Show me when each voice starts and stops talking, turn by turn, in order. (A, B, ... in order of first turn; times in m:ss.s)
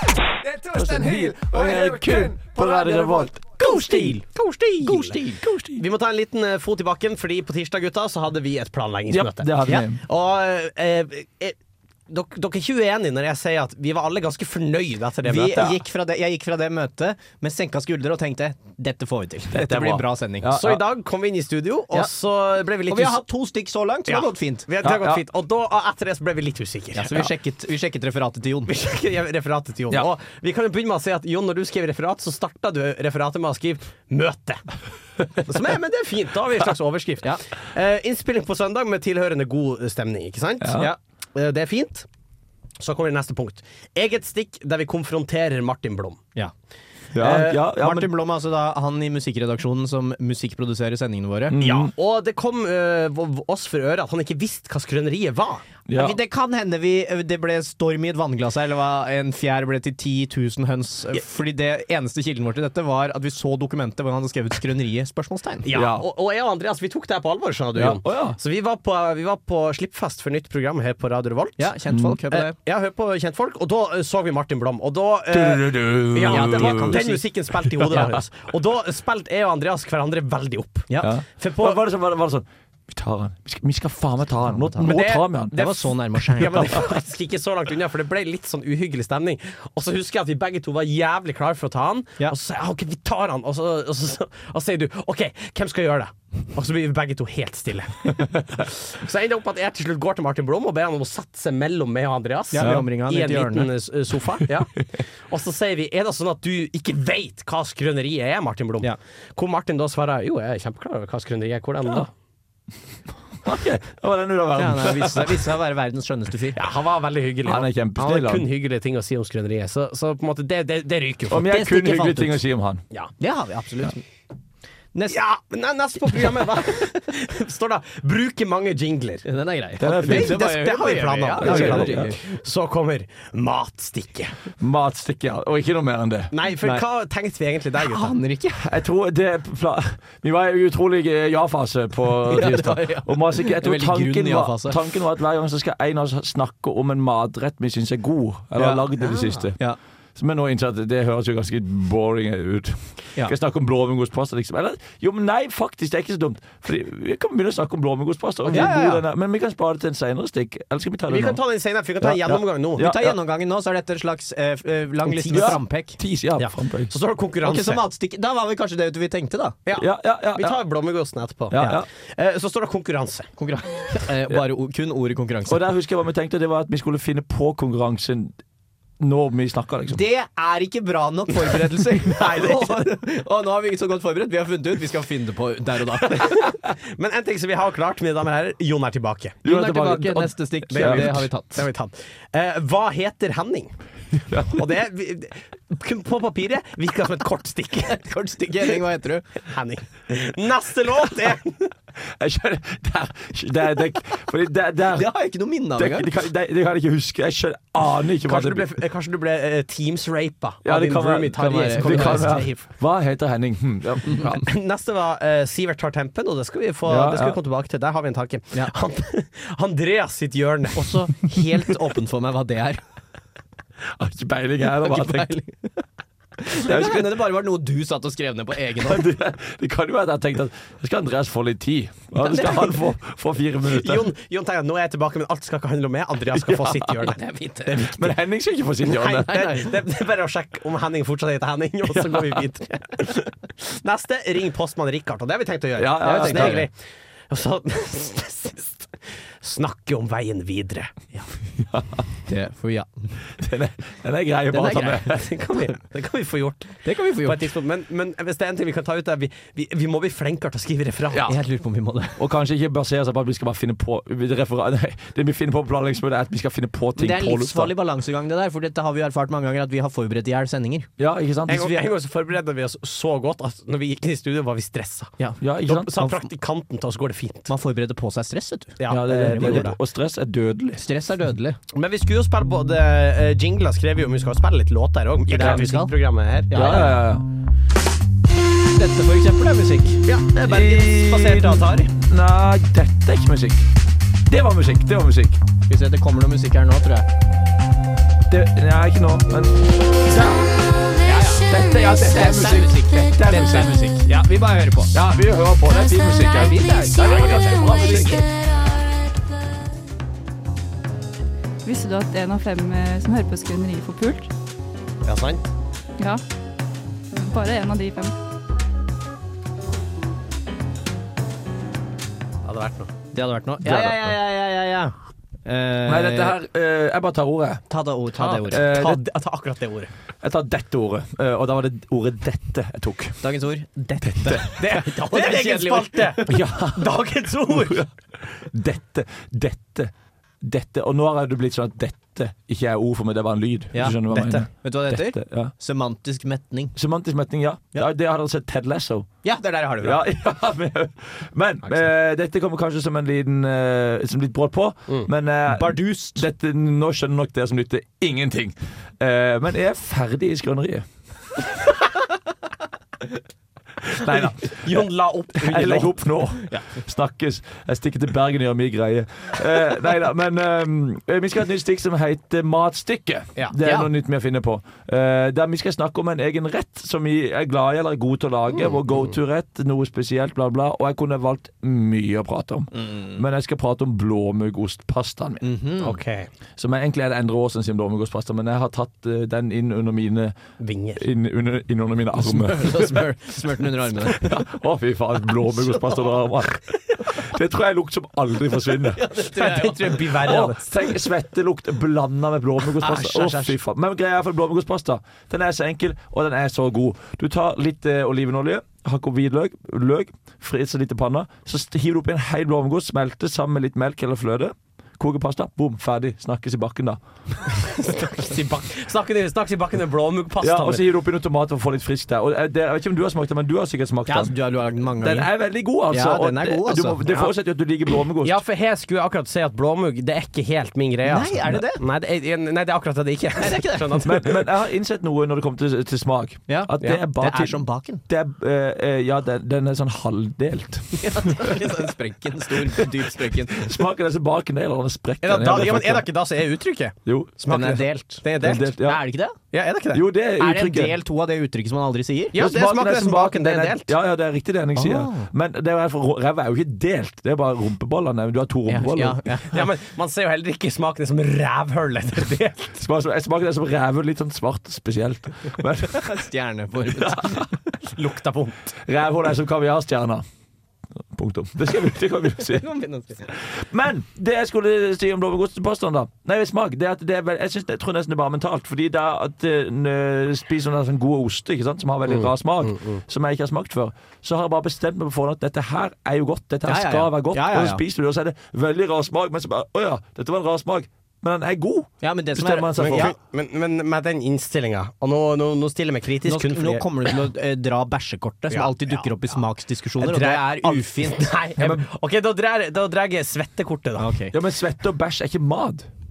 0:00.6-0:04.2 A
0:03.6-0:04.2 B
0:03.6-0:05.2 C
0:04.8-0:05.4 B
0:05.4-0:05.8 A
0:05.8-0:09.5 C
0:09.1-0:10.0 A
0:10.0-0:11.6 C
0:12.1-0:15.8 C
0:15.2-0:20.6 B
0:19.5-0:20.8 A
0:20.6-0:23.2 C
0:22.9-0:24.7 B
0:24.1-0:27.1 C
0:24.8-0:25.2 A
0:26.9-0:28.7 B
0:28.7-0:34.6 C
0:35.4-0:42.1 C
0:40.6-0:40.9 A
0:42.8-0:46.2 C
0:47.1-0:48.1 A
0:47.2-0:47.6 C
0:47.4-0:51.6 B
0:51.5-0:51.9 A
0:51.6-0:55.6 C
0:55.9-0:56.2 A
0:55.9-1:05.7 B
1:05.6-1:11.7 C
1:05.7-1:06.0 A
1:07.7-1:08.4 A
1:11.6-1:12.6 B
1:12.3-1:21.8 C
1:15.3-1:17.0 A
1:16.2-1:17.2 B
1:17.8-1:18.1 A
1:20.9-1:21.1 B
1:21.0-1:25.6 A
1:24.5-1:26.8 B
1:24.8-1:25.8 C
1:26.4-1:52.1 C
1:42.5-1:43.8 B
1:53.4-1:55.4 A
1:54.6-1:56.6 B
1:56.6-2:01.4 C
1:57.4-1:58.5 A
2:01.3-2:02.8 A
2:01.4-2:02.4 B
2:03.2-2:04.0 B
2:04.9-2:05.2 B
2:05.1-2:09.3 C
2:09.2-2:12.2 B
2:09.8-2:10.5 A
2:09.8-2:14.4 C
2:11.4-2:12.1 A
2:14.6-2:16.4 A
2:16.3-2:18.1 C
2:17.8-2:18.6 B
2:18.6-2:29.6 A
2:22.3-2:24.8 B
2:28.6-2:29.8 B
2:30.2-2:41.4 A
2:38.4-2:39.0 B
2:41.1-2:42.9 C
2:42.0-2:43.1 A
2:42.8-2:46.0 B
2:45.1-2:45.6 C
2:45.3-2:46.9 A
2:46.4-2:47.8 C
2:47.4-2:49.6 B
2:49.6-2:53.3 C
2:49.8-2:50.6 A
2:51.5-2:51.9 A
2:53.4-2:55.6 B
2:55.5-2:58.3 A
2:59.0-3:00.0 A
2:59.9-3:06.4 B
3:02.1-3:02.8 C
3:06.1-3:09.4 C
3:09.4-3:11.3 A
3:09.4-3:11.6 B
3:10.7-3:13.7 C
3:14.3-3:14.6 A
3:14.5-3:18.0 C
3:17.9-3:19.3 B
3:19.4-3:21.7 C
3:22.2-3:25.1 A
3:24.9-3:26.1 B
3:25.8-3:28.7 A
3:28.3-3:32.6 C
3:30.6-3:34.4 A
3:31.3-3:32.6 B
3:34.2-3:41.1 C
3:36.9-3:37.4 A
3:40.8-3:42.8 B
3:43.9-3:45.3 A
3:44.8-3:45.8 B
3:46.4-3:49.0 B
3:46.6-3:47.2 A
3:48.9-3:54.1 A
3:52.2-3:52.7 B
3:53.6-3:57.2 C
3:56.3-3:57.1 A
3:57.1-3:58.2 B
3:57.7-3:59.6 A
3:58.9-4:06.8 C
3:59.2-3:59.7 B
4:01.9-4:02.4 A
4:05.8-4:06.6 A
4:06.0-4:06.7 B
4:07.3-4:10.9 C
4:11.6-4:12.0 A
4:12.3-4:13.2 B
4:13.4-4:15.3 A
4:14.5-4:15.1 B
4:14.7-4:21.3 C
4:16.8-4:17.5 B
4:21.3-4:22.2 B
4:22.2-4:27.7 A
4:27.0-4:30.9 B
4:31.0-4:31.8 A
4:31.5-4:35.1 C
4:35.4-4:36.1 A
4:35.6-4:37.5 C
4:37.5-4:39.7 B
4:38.8-4:39.8 C
4:38.9-4:40.8 A
4:40.8-4:41.6 B
4:41.7-4:46.9 C
4:45.3-4:45.9 B
4:46.5-4:46.9 B
4:46.5-4:47.2 A
4:48.7-4:50.0 B
4:50.0-4:51.9 C
4:50.4-4:53.7 A
4:54.3-4:55.4 A
4:55.7-4:57.1 B
4:58.3-5:00.6 A
5:01.0-5:01.5 B
5:01.5-5:04.0 A
5:02.0-5:04.9 B
5:04.9-5:08.3 A
5:06.3-5:08.1 B
5:11.6-5:14.3 D
5:15.0-5:15.5 C
5:17.1-5:18.1 D
5:22.4-5:22.9 C
5:23.1-5:26.4 B
5:23.6-5:24.1 A
5:25.9-5:27.6 A
5:27.7-5:28.6 B
5:28.2-5:29.9 C
5:28.5-5:29.0 A
5:30.2-5:33.2 A
5:33.2-5:36.3 B
5:34.0-5:34.5 A
5:34.6-5:37.8 C
5:36.3-5:39.9 A
5:40.4-5:45.5 A
5:43.7-5:46.7 B
5:46.8-5:49.1 A
5:49.2-5:50.0 B
5:49.8-6:00.9 A
5:55.5-5:56.2 B
6:03.9-6:25.5 A
6:04.1-6:06.1 C
6:13.5-6:13.9 B
6:18.5-6:19.1 C
6:22.7-6:23.2 B
6:25.4-6:26.0 B
6:25.8-6:26.3 C
6:26.6-6:30.4 A
6:30.6-6:31.0 C
6:31.0-6:33.1 A
6:32.2-6:34.3 B
6:34.1-6:39.0 A
6:38.9-6:40.3 B
6:39.4-6:40.7 C
6:40.2-6:57.0 A
6:42.8-6:43.6 B
6:57.6-7:00.8 C
7:00.4-7:04.3 A
7:04.1-7:05.3 B
7:05.0-7:08.4 A
7:05.9-7:07.0 B
7:08.2-7:14.4 C
7:11.0-7:11.8 B
7:13.4-7:14.0 B
7:14.0-7:21.6 A
7:16.5-7:18.0 B
7:21.0-7:23.7 B
7:23.5-7:26.1 A
7:25.2-7:28.6 C
7:27.1-7:27.3 A
7:27.5-7:29.4 B
7:28.4-7:29.0 A
7:29.5-7:30.0 C
7:29.9-7:30.9 A
7:30.4-7:32.4 B
7:32.3-7:33.9 C
7:32.4-7:39.2 A
7:34.8-7:35.3 B
7:38.7-7:39.6 B
7:39.5-7:42.7 C
7:42.8-7:46.1 A
7:45.9-7:47.5 B
7:47.0-7:47.5 A
7:47.9-7:48.7 C
7:48.9-7:50.2 A
7:51.1-7:52.6 A
7:52.4-7:53.4 B
7:53.4-8:13.1 A
8:02.1-8:03.0 C
8:06.6-8:07.8 B
8:12.0-8:13.2 B
8:12.8-8:16.9 C
8:16.2-8:21.8 B
8:18.5-8:19.1 C
8:20.0-8:24.1 C
8:24.0-8:24.4 B
8:24.3-8:25.9 A